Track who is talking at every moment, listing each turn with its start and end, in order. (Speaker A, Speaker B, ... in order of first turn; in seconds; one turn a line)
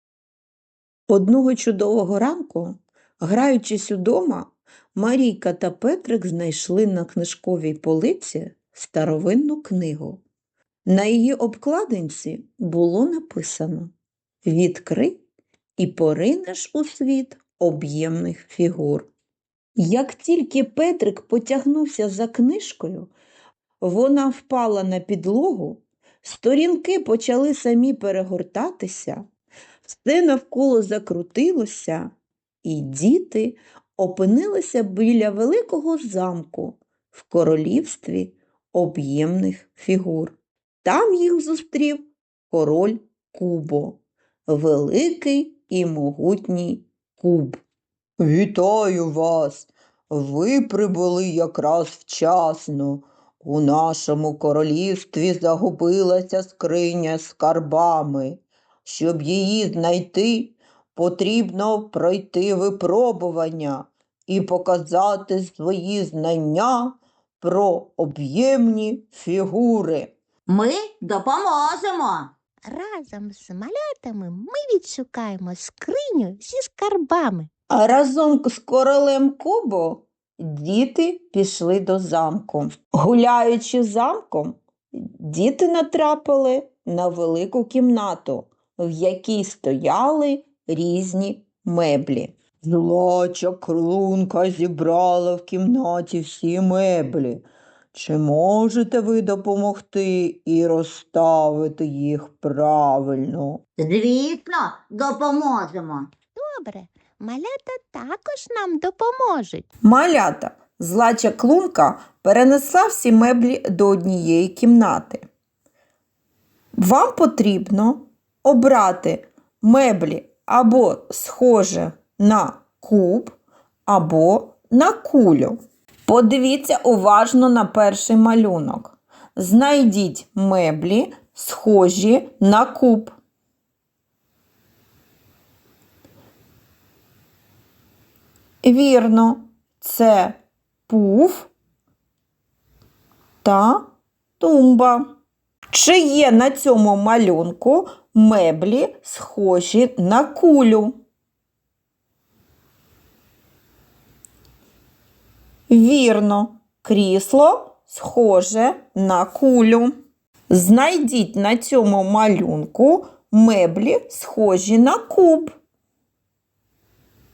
Speaker A: 1.1-10.2
Speaker A: 10.9-13.9
Speaker A: 14.4-15.2
Speaker A: 15.8-19.1
Speaker A: 19.8-23.1
Speaker A: 23.8-29.3
Speaker A: 29.8-32.1
Speaker A: 32.6-47.6
Speaker A: 48.2-70.1
Speaker B: 70.5-72.3
Speaker C: 72.6-77.5
Speaker A: 77.7-103.6
Speaker B: 103.8-106.1
Speaker C: 106.3-109.7
Speaker A: 109.8-115.2
Speaker A: 116.8-133.2
Speaker A: 138.6-141.5
Speaker A: 143.4-143.9
Speaker A: 144.4-145.1
Speaker A: 145.7-151.0
Speaker A: 155.7-159.9
Speaker A: 160.5-165.5